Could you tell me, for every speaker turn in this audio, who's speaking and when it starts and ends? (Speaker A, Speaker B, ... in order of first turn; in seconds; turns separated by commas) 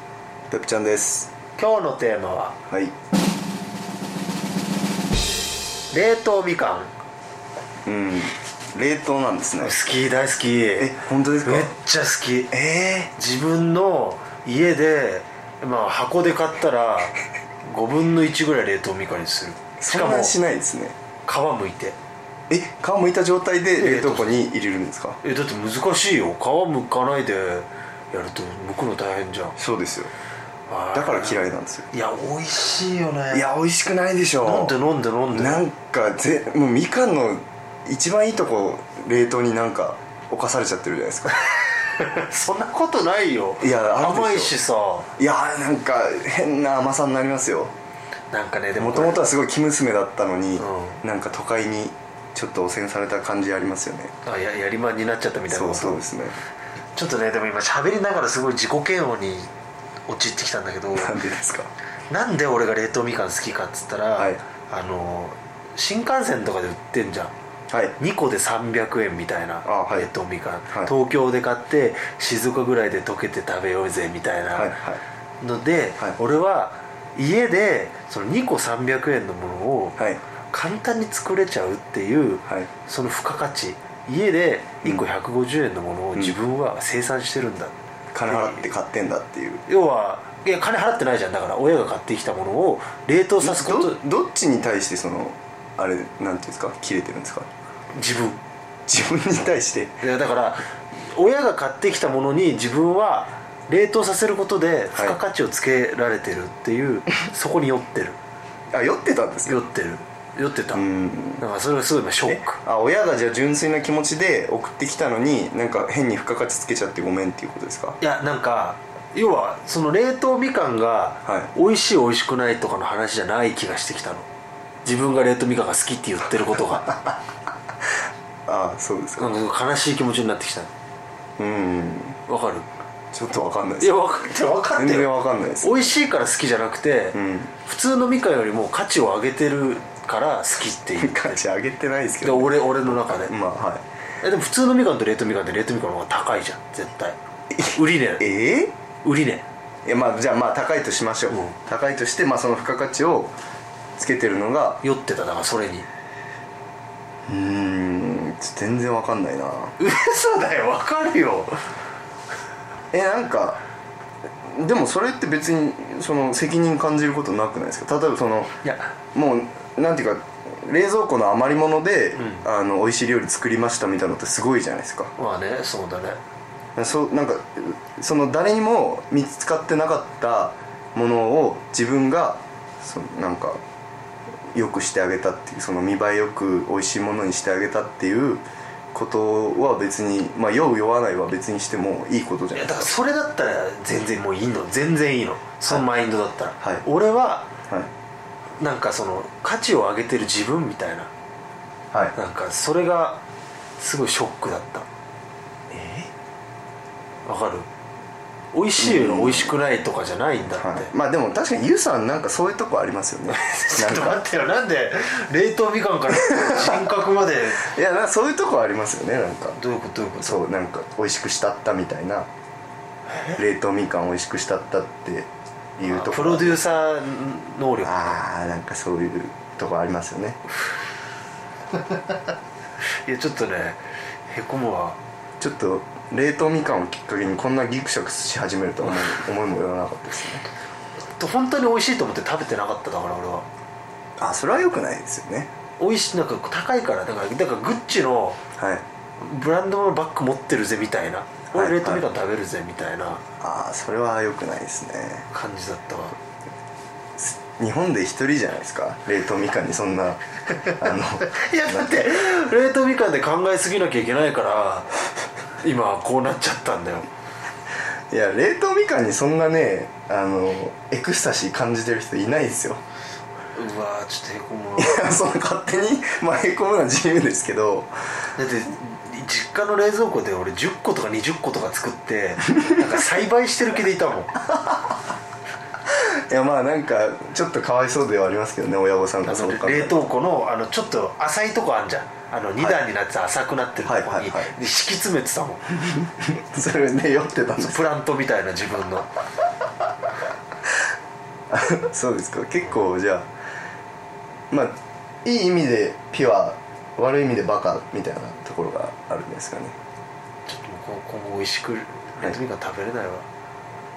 Speaker A: 0.5-1.3, Speaker B: 1.6-2.5, Speaker A: 2.7-2.9, Speaker B: 5.9-6.9, Speaker A: 7.9-9.7, Speaker B: 9.6-12.5, Speaker A: 10.8-11.7, Speaker A: 12.5-13.1, Speaker B: 13.1-20.3, Speaker A: 19.8-21.0, Speaker B: 21.2-22.0, Speaker A: 22.5-25.2, Speaker B: 23.8-24.4, Speaker B: 25.2-29.6, Speaker A: 29.6-30.1, Speaker B: 30.7-31.4, Speaker A: 30.9-31.9, Speaker B: 31.9-33.5, Speaker A: 33.3-34.8, Speaker B: 34.4-35.6, Speaker A: 35.3-41.5, Speaker B: 41.7-45.1, Speaker A: 43.6-44.5, Speaker A: 45.2-47.7, Speaker B: 48.3-49.2, Speaker A: 48.8-54.1, Speaker B: 50.6-51.0, Speaker B: 54.2-56.0, Speaker A: 55.5-56.4, Speaker B: 57.0-59.5, Speaker B: 60.1-61.2, Speaker A: 61.0-61.7, Speaker B: 62.1-67.3, Speaker A: 67.7-68.0, Speaker B: 68.0-74.7, Speaker A: 69.7-70.1, Speaker A: 74.5-75.0, Speaker B: 75.4-80.0, Speaker B: 80.5-88.6, Speaker A: 88.1-89.6, Speaker B: 89.7-94.0, Speaker A: 93.4-97.5, Speaker B: 97.9-98.4, Speaker A: 98.9-100.0, Speaker B: 100.0-108.2, Speaker A: 108.7-109.6, Speaker B: 109.5-110.8, Speaker A: 110.7-111.4, Speaker B: 111.4-112.6, Speaker A: 112.3-118.0, Speaker B: 118.0-124.3, Speaker B: 124.8-127.0, Speaker A: 128.5-129.4, Speaker B: 129.2-130.7, Speaker A: 131.4-132.2, Speaker B: 132.3-132.7, Speaker A: 133.1-134.0, Speaker B: 133.8-135.1, Speaker A: 134.8-135.9, Speaker B: 135.6-141.4, Speaker A: 137.1-137.5, Speaker A: 141.0-143.8, Speaker B: 142.2-143.3, Speaker B: 144.2-148.2, Speaker A: 147.7-148.7, Speaker B: 149.0-149.4, Speaker A: 149.8-153.3, Speaker A: 154.0-154.8, Speaker B: 154.8-155.9, Speaker A: 157.3-159.8, Speaker B: 159.8-161.6, Speaker A: 162.9-163.6, Speaker A: 164.4-168.6, Speaker B: 168.6-168.9, Speaker A: 169.1-175.1, Speaker B: 175.2-176.2, Speaker A: 176.8-183.6, Speaker A: 184.5-192.9, Speaker B: 192.6-197.5, Speaker B: 198.6-201.1, Speaker B: 202.2-203.2, Speaker B: 203.8-204.9, Speaker A: 205.7-206.1, Speaker B: 207.3-207.7, Speaker B: 208.5-210.9, Speaker A: 208.8-209.6, Speaker A: 210.5-214.2, Speaker B: 213.3-217.7, Speaker A: 216.1-216.8, Speaker A: 217.6-219.6, Speaker B: 219.6-220.4, Speaker A: 220.2-222.3, Speaker A: 223.4-226.6, Speaker B: 225.8-228.0, Speaker A: 227.8-230.4, Speaker B: 233.1-235.0, Speaker A: 235.4-240.4, Speaker B: 241.2-243.5, Speaker A: 244.2-245.5, Speaker B: 245.8-248.4, Speaker A: 248.6-248.8, Speaker B: 249.2-253.2, Speaker A: 251.5-252.1, Speaker A: 253.4-255.3, Speaker B: 255.3-256.2, Speaker A: 257.2-260.2, Speaker A: 260.8-262.0, Speaker B: 261.3-264.9, Speaker B: 265.6-267.1, Speaker A: 268.1-272.8, Speaker B: 273.6-275.2, Speaker A: 274.8-277.9, Speaker B: 278.4-284.4, Speaker A: 285.9-290.0, Speaker B: 289.2-295.8, Speaker A: 293.9-294.5, Speaker A: 296.0-297.9, Speaker B: 297.6-299.1, Speaker A: 301.5-303.3, Speaker A: 304.5-309.8, Speaker B: 310.5-313.3